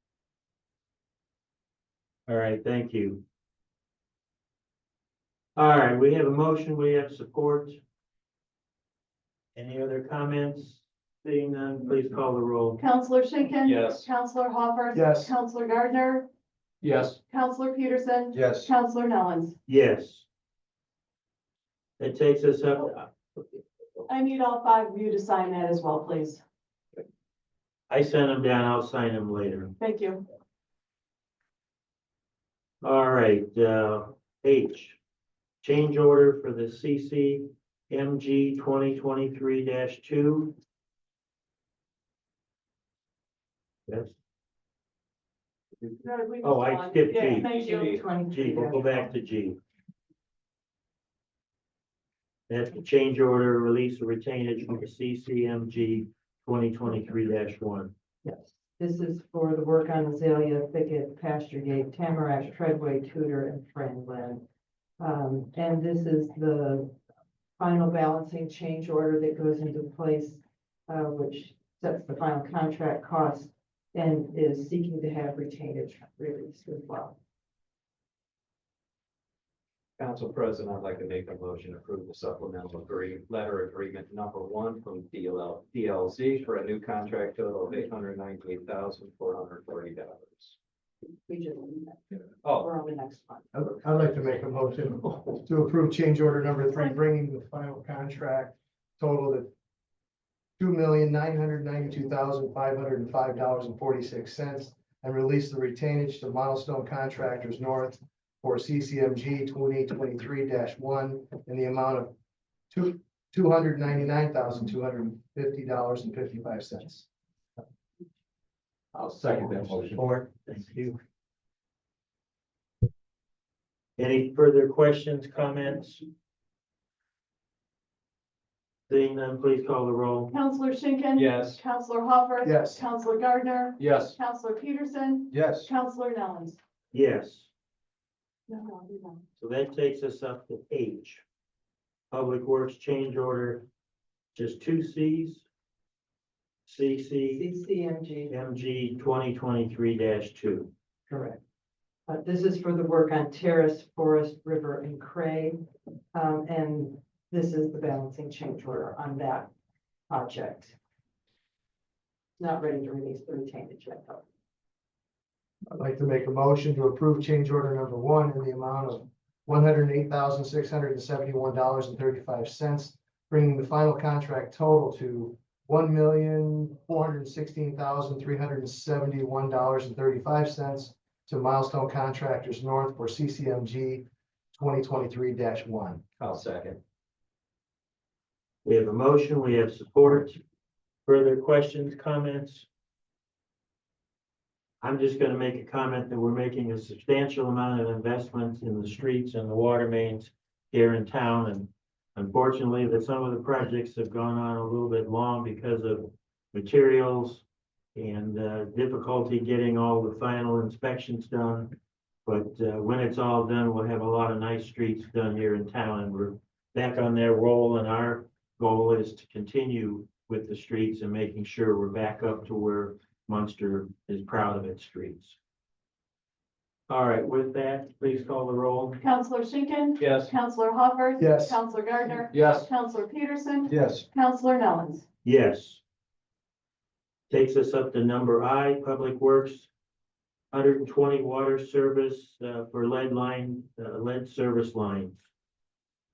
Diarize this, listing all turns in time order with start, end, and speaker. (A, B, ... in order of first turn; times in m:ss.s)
0:02.3-0:03.2 A
0:05.6-0:07.8 A
0:09.5-0:12.8 A
0:12.8-0:16.3 B
0:13.6-0:14.1 C
0:14.9-0:15.3 D
0:16.8-0:17.2 C
0:17.3-0:19.5 B
0:19.7-0:20.2 A
0:22.0-0:23.1 A
0:24.1-0:26.4 B
0:27.9-0:29.8 A
0:29.8-0:30.2 B
0:32.8-0:35.0 A
0:35.6-0:40.5 A
0:43.9-0:44.1 A
0:46.0-0:48.0 B
0:46.4-0:47.5 A
0:47.4-0:49.1 E
0:47.6-0:47.9 C
0:48.2-0:49.6 A
0:52.5-0:57.9 A
0:58.2-1:04.4 E
1:05.0-1:07.0 E
1:07.6-1:17.2 E
1:20.0-1:30.5 F
1:31.2-1:33.5 E
1:32.4-1:32.7 F
1:33.5-1:39.5 D
1:40.6-1:52.1 D
1:52.7-1:57.0 D
1:58.9-2:00.0 C
2:00.0-2:01.0 A
2:04.0-2:06.0 A
2:08.9-2:10.3 A
2:10.3-2:16.6 B
2:11.2-2:11.6 C
2:12.4-2:12.8 D
2:13.8-2:14.2 C
2:16.9-2:17.5 A
2:18.5-2:19.2 B
2:19.4-2:21.2 A
2:22.1-2:23.7 A
2:24.3-2:25.4 A
2:26.7-2:27.5 A
2:27.3-2:28.4 E
2:28.3-2:30.7 A
2:31.1-2:31.4 E
2:32.1-2:35.6 E
2:36.1-2:39.5 E
2:40.1-2:40.8 E
2:42.4-2:44.2 E
2:45.7-3:06.0 D
3:06.2-3:06.8 F
3:08.6-3:10.4 A
3:11.0-3:12.6 A
3:14.8-3:45.4 A
3:46.9-3:49.0 A
3:49.0-3:55.0 B
3:50.0-3:50.3 C
3:51.2-3:51.6 D
3:52.3-3:52.7 C
3:55.2-3:55.8 A
3:57.3-3:59.7 A
4:00.5-4:05.2 A